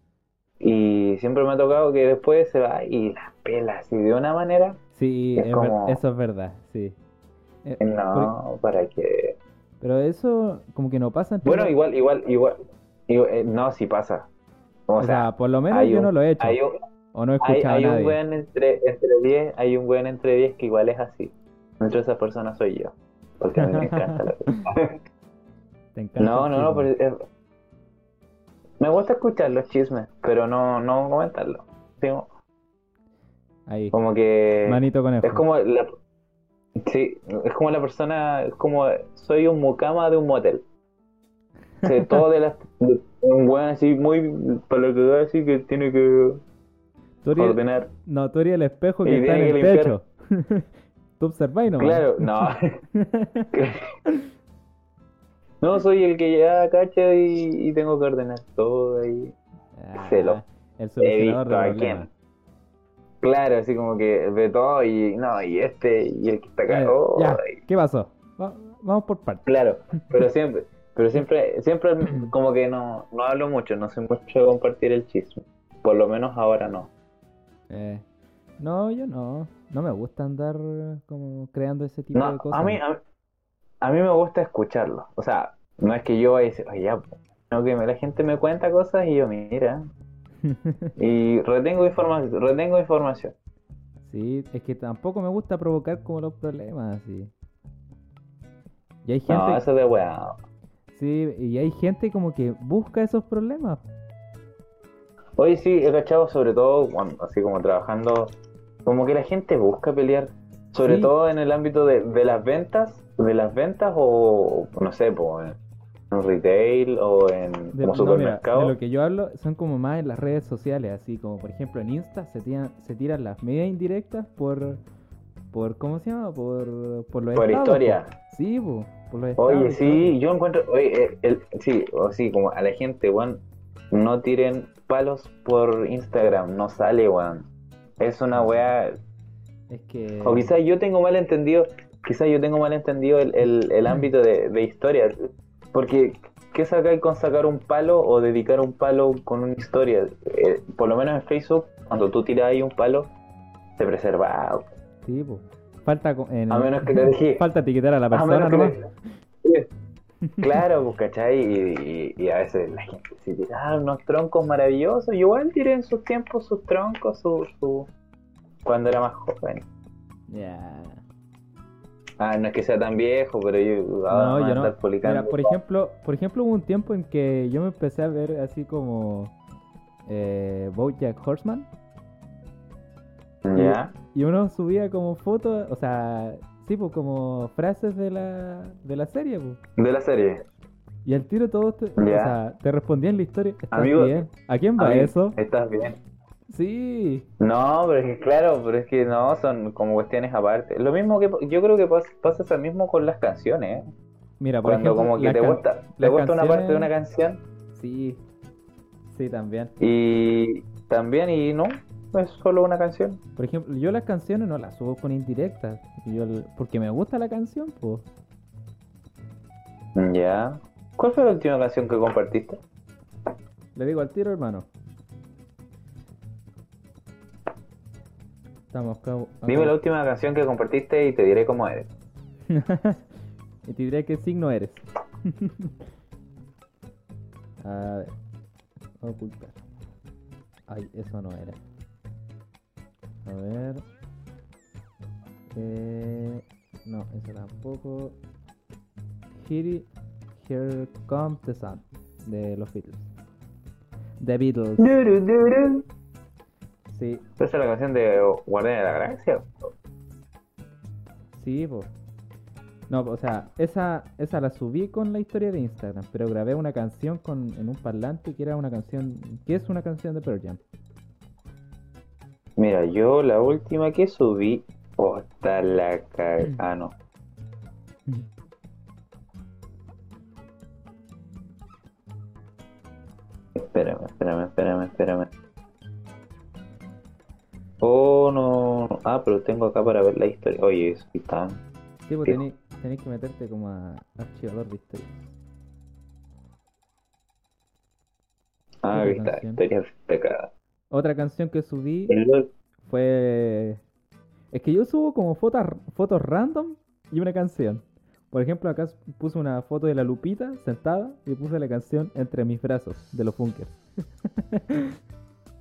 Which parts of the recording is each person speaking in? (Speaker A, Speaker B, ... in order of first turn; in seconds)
Speaker A: 0.6-4.8, 5.4-6.0, 7.8-9.4, 11.4-12.6, 13.1-14.3, 14.9-16.8, 17.4-24.9, 26.2-27.1, 28.8-32.3, 33.9-35.9, 36.8-40.6, 41.8-46.4, 47.4-47.9, 49.0-50.0, 51.8-52.6, 55.6-59.4, 60.0-60.4, 61.0-62.1, 63.2-67.6, 69.5-76.9, 82.2-83.0, 83.8-89.8, 91.0-93.3, 99.3-100.4, 105.4-108.3, 108.8-115.6, 116.1-118.8, 127.3-128.1, 129.4-137.5, 138.0-139.0, 140.2-145.1, 145.7-153.1, 153.8-154.7, 156.5-157.4, 158.1-158.8, 160.4-167.9, 168.7-169.7, 172.2-175.6, 183.4-183.9, 189.8-190.4, 192.0-192.4, 193.7-194.2, 194.8-196.0, 197.4-203.8, 204.6-207.4, 209.8-213.2, 220.0-222.6, 229.5-231.9, 254.8-255.8, 257.4-259.7, 272.6-276.9, 283.6-285.3, 287.8-291.6, 298.8-300.5, 302.1-302.5
Speaker B: 5.0-7.0, 7.7-8.3, 9.8-11.8, 15.0-16.6, 17.1-18.2, 23.6-24.6, 25.9-26.9, 33.7-34.0, 34.7-35.4, 41.8-42.2, 47.2-50.7, 51.2-53.5, 59.8-62.1, 66.7-69.5, 77.7-78.0, 78.6-82.8, 90.4-90.9, 94.0-97.3, 99.0-99.7, 100.9-103.8, 110.8-111.1, 117.7-124.8, 125.5-130.2, 138.3-138.6, 139.7-140.6, 155.0-158.8, 170.3-171.0, 174.1-179.3, 180.1-181.7, 183.6-189.6, 191.1-195.4, 196.5-197.3, 204.4-206.9, 207.7-208.2, 209.1-209.7, 213.4-218.1, 223.8-224.7, 228.7-229.8, 232.5-233.1, 233.7-235.7, 237.6-238.1, 239.0-239.6, 240.7-241.6, 243.2-243.8, 245.5-248.2, 249.4-253.1, 254.2-255.0, 256.9-257.2, 261.3-261.9, 262.9-270.6, 292.1-295.3, 298.9-299.6, 300.9-302.2, 302.8-303.8, 304.5-313.8, 314.4-314.9